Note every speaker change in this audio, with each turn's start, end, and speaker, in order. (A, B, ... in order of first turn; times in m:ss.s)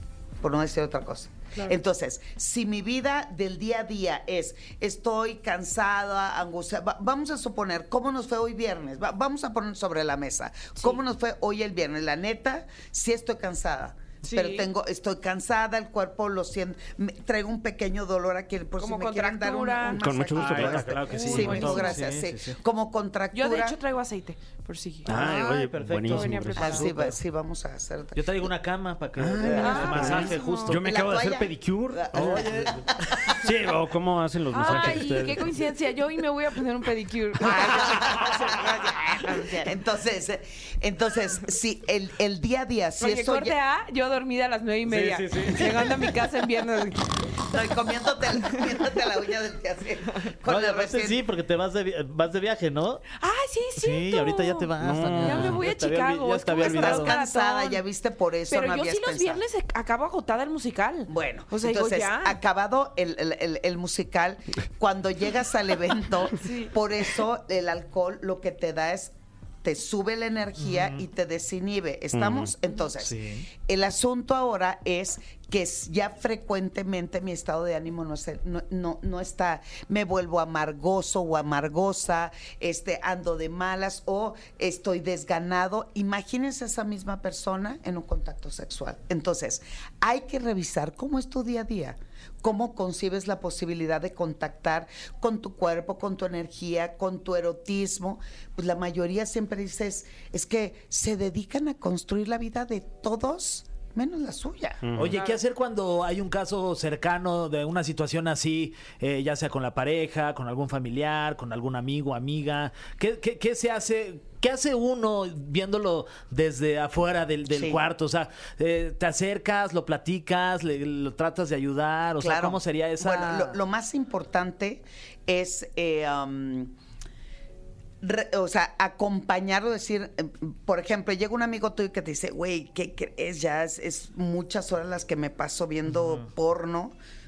0:00.4-0:23.8 A
0:14.2-0:14.7 B
0:18.8-0:20.0 B
0:20.0-0:21.7 C
0:20.3-0:22.6 D
0:21.1-0:22.0 B
0:23.3-0:26.9 B
0:25.0-0:26.8 C
0:25.1-0:27.2 D
0:26.6-0:28.5 A
0:28.1-0:30.8 D
0:29.2-0:32.7 C
0:29.5-0:30.3 A
0:29.6-0:30.8 B
0:30.8-0:33.4 A
0:32.1-0:32.8 D
0:33.3-0:35.4 C
0:34.5-0:39.6 B
0:37.4-0:43.5 A
0:43.0-0:47.2 B
0:44.8-0:46.2 D
0:47.5-0:51.2 A
0:50.4-0:53.0 D
0:53.2-0:54.7 B
0:53.8-0:57.1 D
0:54.8-0:55.6 C
0:55.2-0:57.8 B
0:56.6-0:59.4 A
0:58.5-1:02.4 B
1:01.1-1:44.9 A
1:06.4-1:06.7 B
1:10.6-1:11.0 D
1:12.1-1:12.5 C
1:13.0-1:13.4 D
1:44.8-1:45.2 C
1:44.9-2:03.6 D
1:45.0-1:45.4 B
1:57.5-1:57.8 A
2:02.2-2:06.7 A
2:08.0-2:16.9 A